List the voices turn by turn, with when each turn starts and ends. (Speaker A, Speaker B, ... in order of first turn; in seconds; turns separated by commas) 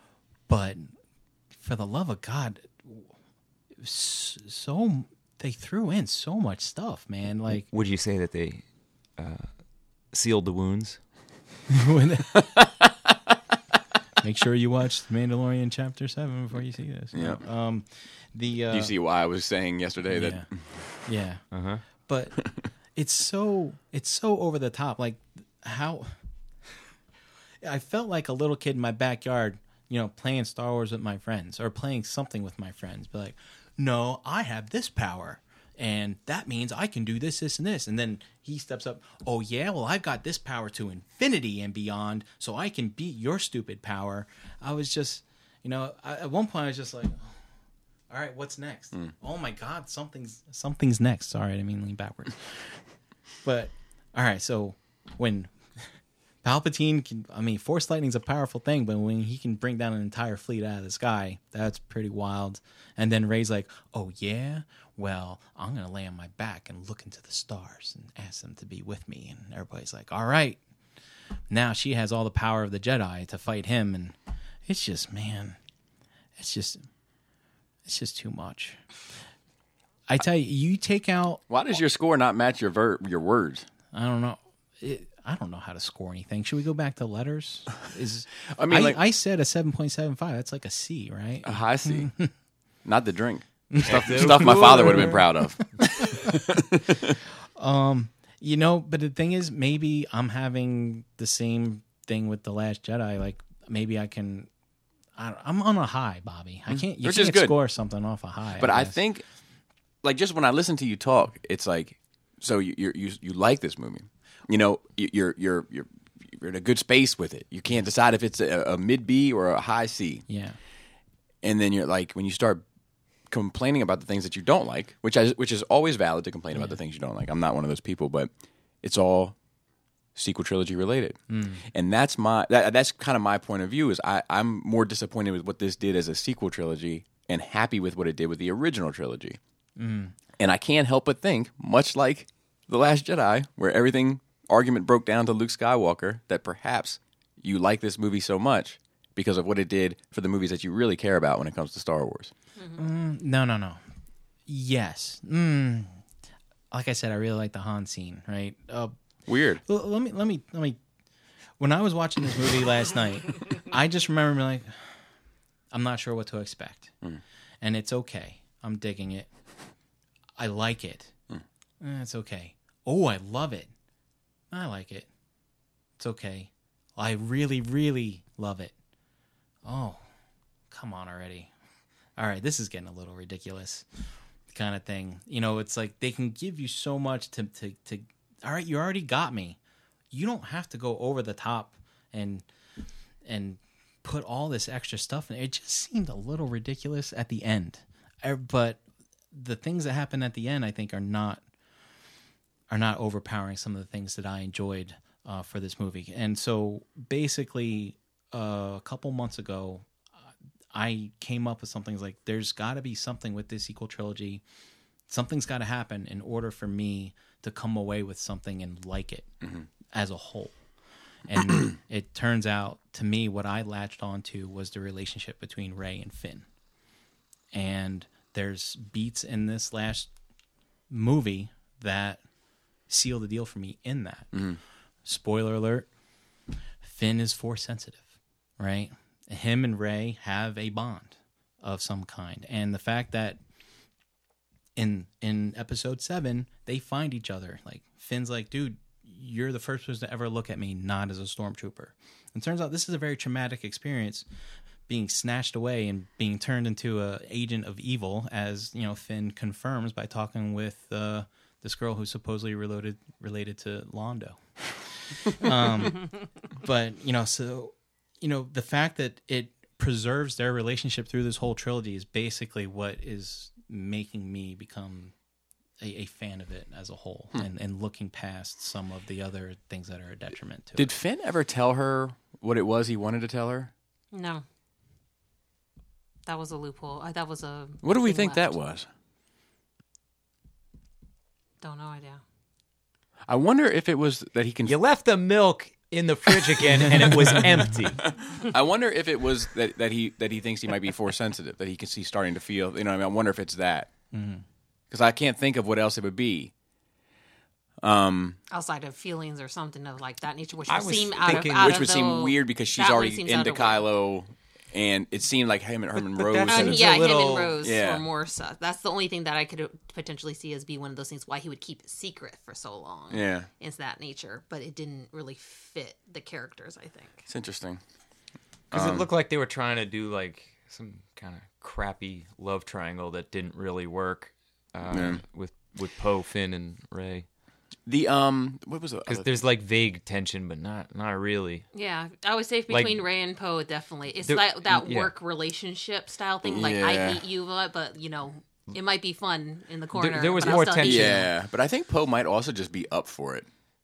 Speaker A: 0.5-0.9, Speaker A: 1.5-3.1, Speaker A: 3.8-7.7, Speaker B: 7.5-11.0, Speaker A: 11.7-12.5, Speaker C: 12.6-12.9, Speaker A: 14.2-18.9, Speaker C: 17.1-17.4, Speaker C: 18.7-21.0, Speaker A: 20.1-26.2, Speaker B: 21.5-21.8, Speaker A: 27.6-47.5, Speaker A: 48.1-70.6, Speaker A: 71.5-75.6, Speaker A: 76.4-76.8, Speaker A: 77.8-79.0, Speaker A: 80.1-81.4, Speaker C: 81.5-83.7, Speaker A: 83.9-92.3, Speaker C: 88.5-89.0, Speaker C: 91.4-92.1, Speaker C: 92.8-97.1, Speaker A: 93.7-96.2, Speaker B: 93.8-95.1, Speaker A: 97.6-104.5, Speaker A: 105.2-109.0, Speaker C: 106.7-107.6, Speaker C: 108.6-109.3, Speaker C: 110.0-120.3, Speaker A: 120.3-120.6, Speaker C: 121.4-122.6, Speaker C: 123.3-128.3, Speaker C: 128.8-129.4, Speaker C: 130.2-139.4, Speaker A: 131.3-131.7, Speaker A: 139.8-140.2, Speaker C: 140.4-152.3, Speaker A: 152.7-153.8, Speaker A: 154.5-156.0, Speaker A: 156.7-158.9, Speaker C: 159.3-159.6, Speaker A: 159.6-160.8, Speaker A: 161.6-165.1, Speaker A: 165.7-167.0, Speaker A: 167.6-169.7, Speaker A: 170.4-171.2, Speaker A: 171.8-173.7, Speaker A: 174.5-175.1, Speaker A: 176.0-178.7, Speaker A: 179.6-180.1, Speaker A: 180.7-181.5, Speaker A: 182.2-189.6, Speaker A: 190.1-192.5, Speaker A: 193.2-201.4, Speaker A: 202.7-210.0, Speaker A: 210.7-214.4, Speaker A: 215.1-220.7, Speaker A: 221.3-226.5, Speaker A: 227.5-230.1, Speaker A: 230.9-232.3, Speaker A: 232.8-235.9, Speaker C: 234.3-234.6, Speaker A: 236.8-243.4, Speaker A: 244.8-254.3, Speaker A: 254.9-275.1, Speaker A: 275.8-280.9, Speaker C: 280.8-283.7, Speaker D: 284.1-284.4, Speaker D: 286.2-288.6, Speaker C: 287.8-288.9, Speaker D: 291.6-292.2, Speaker C: 293.3-294.8, Speaker B: 294.6-298.2, Speaker C: 298.0-303.9, Speaker A: 304.1-304.4, Speaker C: 304.9-306.5, Speaker C: 307.8-308.4, Speaker D: 308.5-313.9, Speaker B: 310.7-311.8, Speaker C: 311.2-317.0, Speaker B: 316.2-317.6, Speaker D: 316.5-327.3, Speaker C: 317.6-318.0, Speaker C: 323.1-323.5, Speaker C: 327.3-327.8, Speaker C: 328.7-329.1, Speaker B: 328.7-337.3, Speaker C: 334.9-335.2, Speaker C: 337.9-339.4, Speaker B: 339.1-341.7, Speaker D: 341.7-351.2, Speaker B: 342.7-343.0, Speaker B: 344.2-345.1, Speaker C: 346.4-347.2, Speaker B: 349.9-351.3, Speaker C: 350.5-353.5